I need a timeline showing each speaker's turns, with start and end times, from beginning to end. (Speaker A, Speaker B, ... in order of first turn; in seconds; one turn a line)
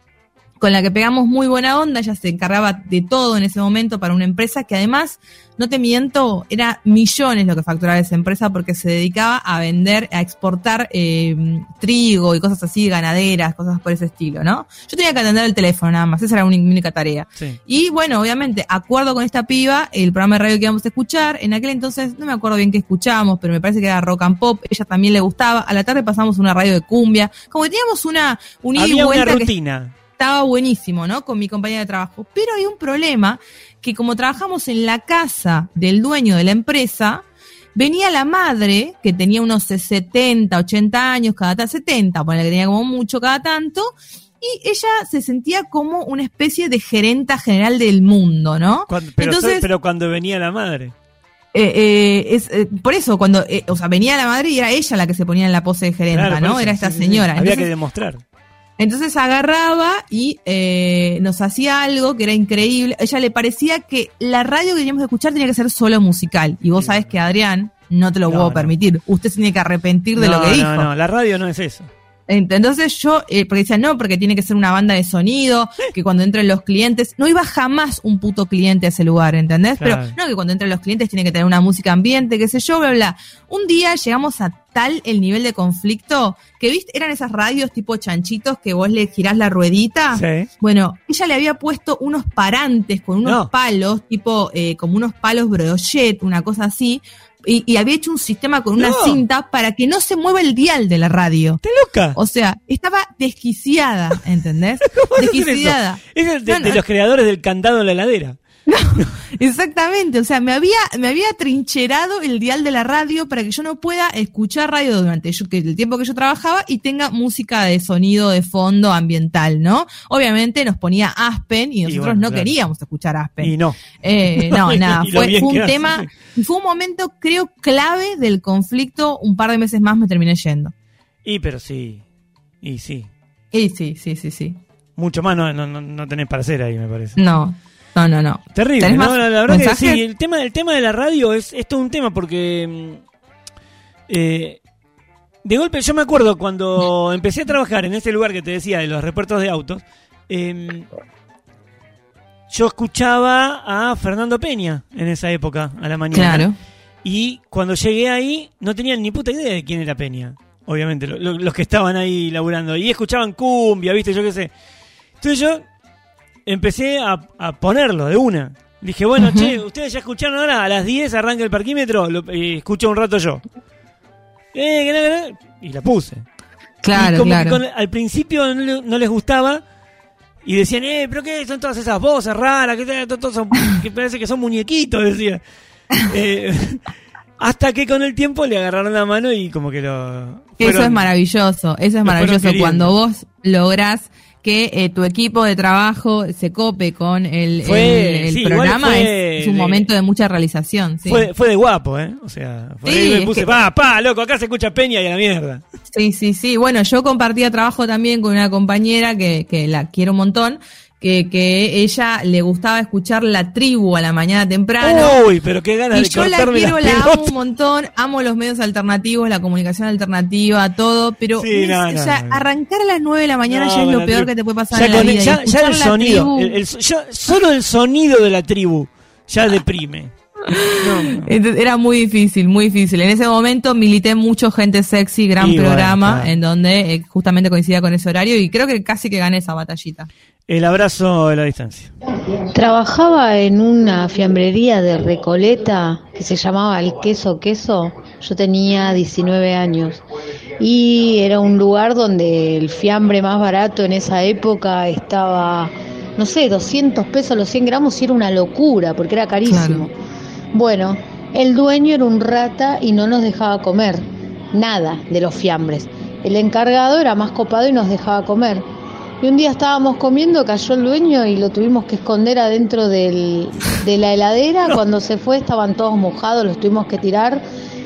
Speaker A: 0.6-29.5
Speaker B: 28.8-29.9
Speaker A: 30.1-49.6
Speaker B: 48.9-50.9
Speaker A: 51.5-57.7
Speaker B: 56.1-58.2
Speaker A: 58.8-70.9
Speaker B: 66.8-67.1
Speaker B: 68.2-68.7
Speaker B: 70.2-71.9
Speaker A: 72.3-101.6
Speaker B: 79.8-80.2
Speaker B: 90.1-90.5
Speaker B: 93.2-93.5
Speaker B: 98.8-99.2
Speaker B: 101.6-102.2
Speaker A: 102.2-106.8
Speaker B: 104.8-108.4
Speaker A: 108.7-130.7
Speaker B: 121.8-122.5
Speaker B: 123.4-126.1
Speaker B: 131.2-132.0
Speaker B: 132.6-133.1
Speaker A: 133.5-134.6
Speaker B: 135.0-137.2
Speaker A: 137.2-140.0
Speaker B: 138.5-143.0
Speaker B: 144.1-144.6
Speaker B: 145.4-150.9
Speaker B: 152.5-156.5
Speaker A: 156.1-156.5
Speaker B: 157.0-164.5
Speaker B: 165.2-165.6
Speaker B: 166.4-173.4
Speaker A: 169.2-169.5
Speaker B: 174.5-176.2
Speaker A: 176.8-177.6
Speaker B: 176.9-179.6
Speaker B: 180.4-185.4
Speaker B: 186.0-191.1
Speaker A: 190.6-201.3
Speaker B: 192.0-192.9
Speaker B: 197.6-199.9
Speaker B: 201.0-205.6
Speaker A: 202.8-203.5
Speaker A: 205.9-215.2
Speaker B: 214.8-217.3
Speaker A: 215.9-226.6
Speaker B: 221.3-222.4
Speaker B: 223.5-230.1
Speaker A: 230.5-240.1
Speaker B: 230.8-231.3
Speaker B: 235.4-236.3
Speaker B: 240.5-241.9
Speaker C: 242.5-250.0
Speaker C: 250.6-259.9
Speaker A: 259.4-259.9
Speaker C: 260.5-264.0
Speaker C: 264.5-268.6
Speaker C: 269.2-277.4